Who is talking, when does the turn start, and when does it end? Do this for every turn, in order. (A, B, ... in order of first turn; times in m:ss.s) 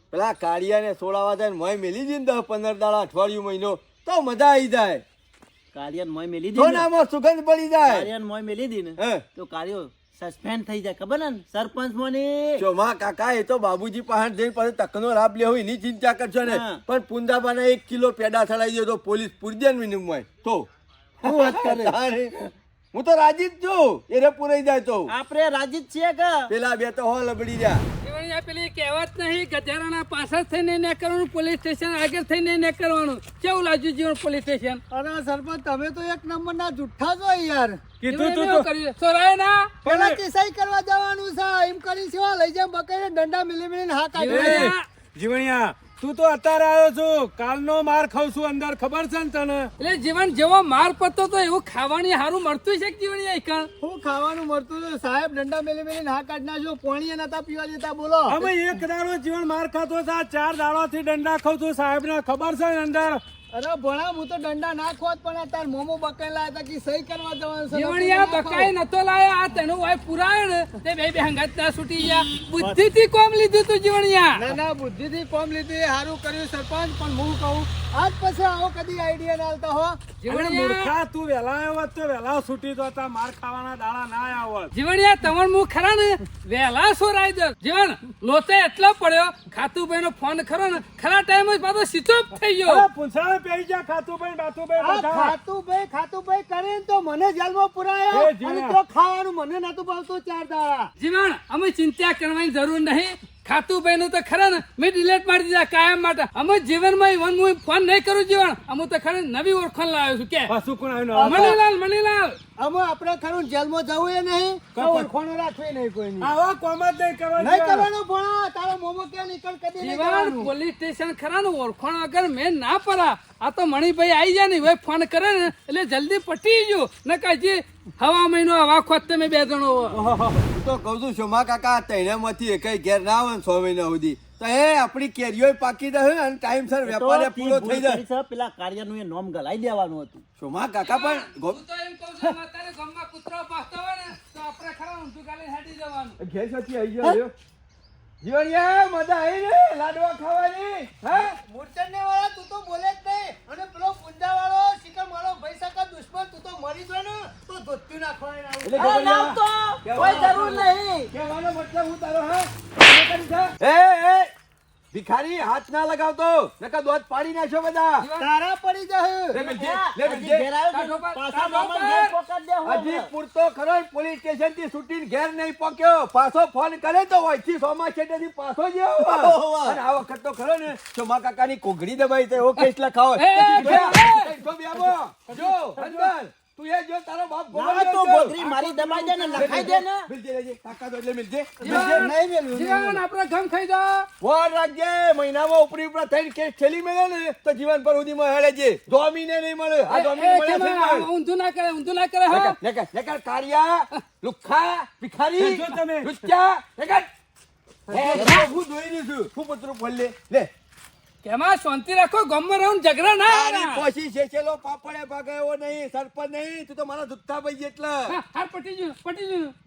0:00.1-0:05.0 A
0:05.7-0:06.9 B
0:06.6-0:08.1 A
0:07.9-0:12.6 B
0:09.0-0:09.2 A
0:12.6-0:20.7 A
0:16.5-0:16.8 B
0:21.2-0:22.1 B
0:21.2-0:22.3 A
0:22.9-0:25.1 A
0:25.1-0:26.5 B
0:26.5-0:27.8 A
0:28.0-0:34.8 C
0:34.9-0:37.8 D
0:38.0-0:38.7 E
0:38.1-0:39.8 C
0:39.8-0:40.2 E
0:39.8-0:44.7 D
0:44.2-0:44.8 C
0:44.3-0:49.7 E
0:49.8-0:53.7 C
0:53.8-0:58.5 D
0:58.3-1:03.2 E
1:03.5-1:08.7 D
1:07.7-1:14.5 C
1:14.4-1:20.0 D
1:20.2-1:20.9 C
1:20.3-1:24.7 E
1:24.7-1:32.9 C
1:32.6-1:35.4 E
1:34.8-1:40.9 D
1:38.1-1:38.8 E
1:41.0-1:50.5 C
1:50.5-1:51.6 E
1:51.1-1:51.6 D
1:51.2-1:52.4 C
1:52.6-1:56.3 D
1:54.7-1:55.1 E
1:56.2-1:57.9 E
1:57.4-2:00.5 D
1:59.8-2:10.0 C
2:09.9-2:18.0 A
2:16.8-2:20.2 B
2:20.4-2:21.6 A
2:20.8-2:26.2 C
2:26.2-2:27.3 A
2:28.2-2:31.4 A
2:31.1-2:39.0 D
2:38.6-2:44.3 A
2:38.8-2:41.1 B
2:44.9-2:48.0 A
2:48.0-2:48.3 C
2:48.2-2:49.4 D
2:49.3-2:50.5 A
2:49.4-2:53.1 B
2:50.7-2:52.1 C
2:52.6-3:12.1 A
2:59.1-2:59.8 B
3:03.2-3:04.4 C
3:05.5-3:06.1 E
3:07.5-3:10.1 B
3:11.6-3:13.0 D
3:11.6-3:14.1 C
3:14.2-3:21.1 A
3:19.9-3:22.6 C
3:22.3-3:27.1 A
3:25.4-3:26.3 E
3:27.9-3:30.5 A
3:27.9-3:28.5 C
3:31.2-3:33.8 C
3:33.3-3:38.2 A
3:38.1-3:39.5 C